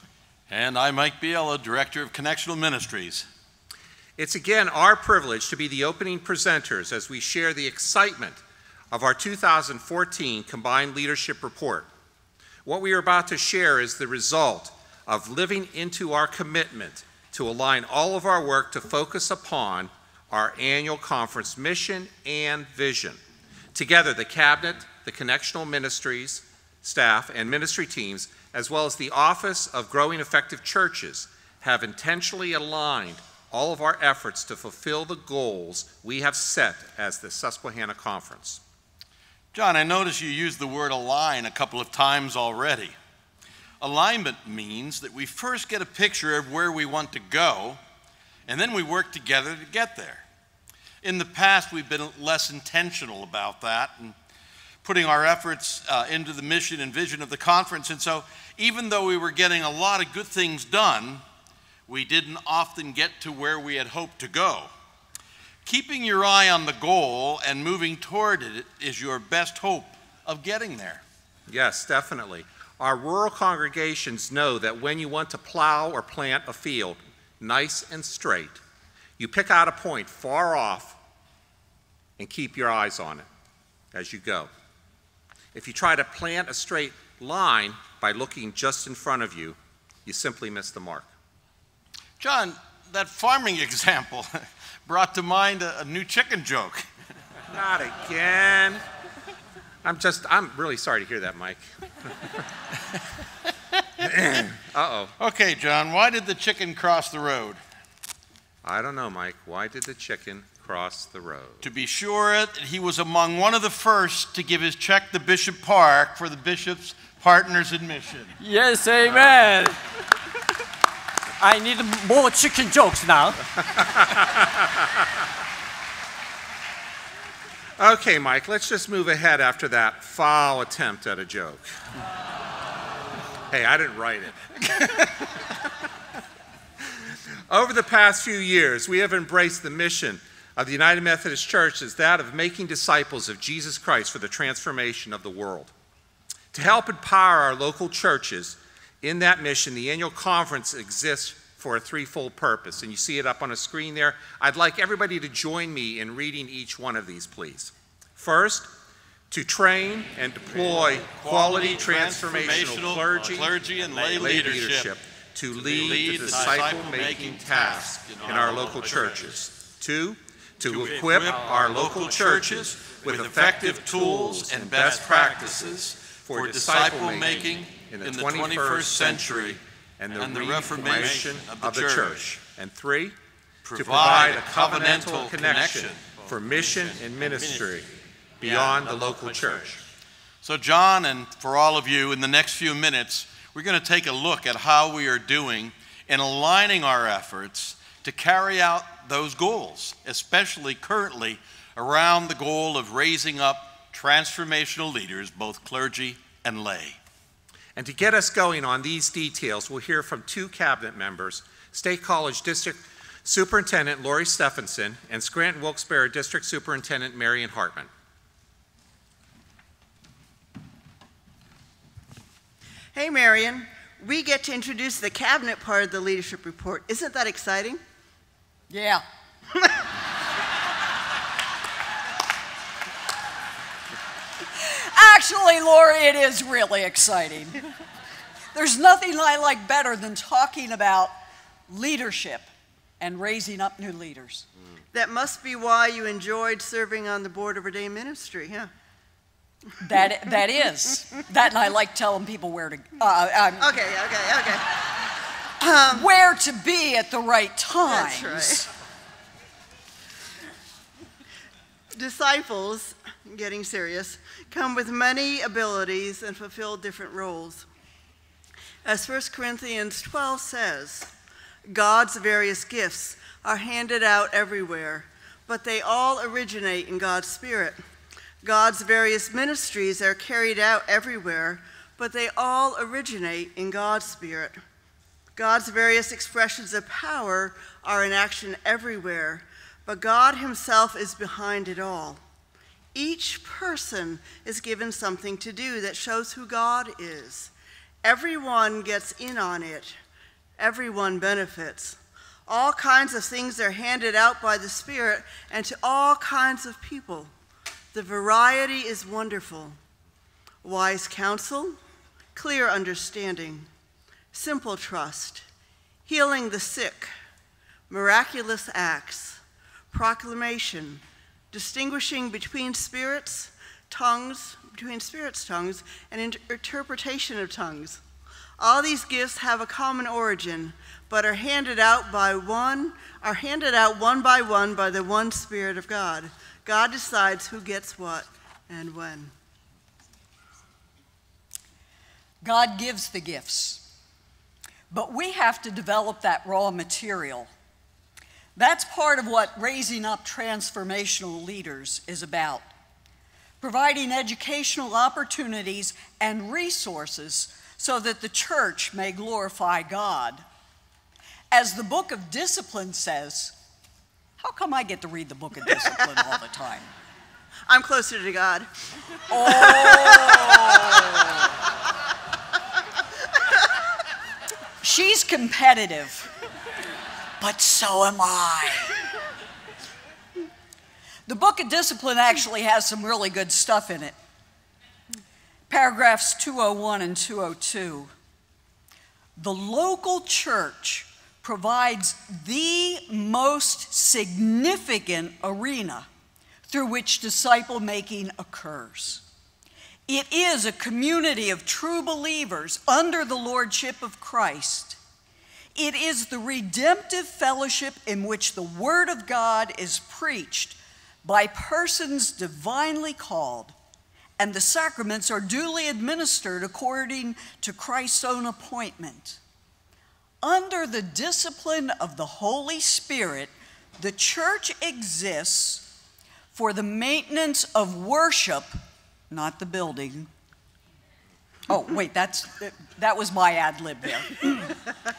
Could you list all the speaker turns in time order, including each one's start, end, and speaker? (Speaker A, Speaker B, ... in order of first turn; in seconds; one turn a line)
Speaker A: 0.5-3.3
Speaker B: 4.2-8.4
Speaker B: 8.9-11.9
Speaker B: 12.6-23.2
Speaker B: 23.7-38.6
Speaker A: 39.5-43.0
Speaker A: 43.8-47.8
Speaker A: 48.5-50.2
Speaker A: 51.0-54.1
Speaker A: 54.8-61.2
Speaker A: 61.9-64.7
Speaker A: 65.7-71.0
Speaker B: 71.5-78.6
Speaker B: 79.2-81.0
Speaker B: 82.2-83.3
Speaker B: 83.9-84.5
Speaker B: 85.5-91.1
Speaker A: 92.2-96.9
Speaker B: 97.5-98.8
Speaker B: 99.8-101.6
Speaker B: 104.0-105.1
Speaker A: 105.2-107.6
Speaker B: 108.6-111.7
Speaker A: 111.6-118.3
Speaker C: 118.4-119.8
Speaker C: 121.4-123.4
Speaker B: 124.1-124.5
Speaker B: 127.8-131.7
Speaker B: 133.5-135.1
Speaker B: 137.5-145.7
Speaker B: 146.5-158.7
Speaker B: 159.3-183.2
Speaker A: 161.1-165.0
Speaker A: 165.5-169.2
Speaker A: 170.7-179.6
Speaker C: 170.7-171.7
Speaker A: 180.1-182.4
Speaker A: 183.6-186.2
Speaker B: 183.7-187.9
Speaker C: 186.1-187.7
Speaker B: 188.4-189.8
Speaker C: 188.4-189.8
Speaker A: 190.4-207.0
Speaker B: 207.8-217.9
Speaker D: 222.9-227.8
Speaker E: 228.7-229.0
Speaker E: 234.6-237.6
Speaker E: 238.5-241.1
Speaker E: 241.7-242.5
Speaker E: 243.0-244.4
Speaker D: 244.9-248.7
Speaker E: 249.8-253.8
Speaker D: 253.6-254.7
Speaker D: 255.6-256.1
Speaker E: 255.9-258.7
Speaker D: 257.8-258.7
Speaker D: 261.9-267.6
Speaker D: 268.8-271.1
Speaker D: 271.7-277.8
Speaker D: 278.4-284.6
Speaker D: 285.4-292.2
Speaker D: 292.9-297.5
Speaker D: 298.0-300.0
Speaker D: 300.6-307.3
Speaker D: 307.9-309.8
Speaker D: 310.6-311.8
Speaker D: 312.3-313.7
Speaker D: 314.3-315.4
Speaker D: 316.1-317.1
Speaker D: 317.9-319.4
Speaker D: 319.9-328.0
Speaker D: 328.6-339.3
Speaker E: 342.4-343.8
Speaker E: 344.9-347.5
Speaker E: 348.6-352.6
Speaker E: 353.6-360.4
Speaker E: 361.5-363.6
Speaker E: 364.4-366.9
Speaker D: 367.7-368.7
Speaker E: 369.3-371.4
Speaker D: 369.4-371.1
Speaker E: 374.8-376.3
Speaker E: 377.4-378.9
Speaker E: 381.3-384.1
Speaker E: 385.7-388.1
Speaker E: 389.4-396.1
Speaker E: 396.7-399.2
Speaker E: 400.1-405.0
Speaker E: 405.7-413.7
Speaker E: 414.4-419.4
Speaker E: 420.4-425.9
Speaker E: 426.5-428.8
Speaker E: 429.3-430.3
Speaker E: 431.7-434.8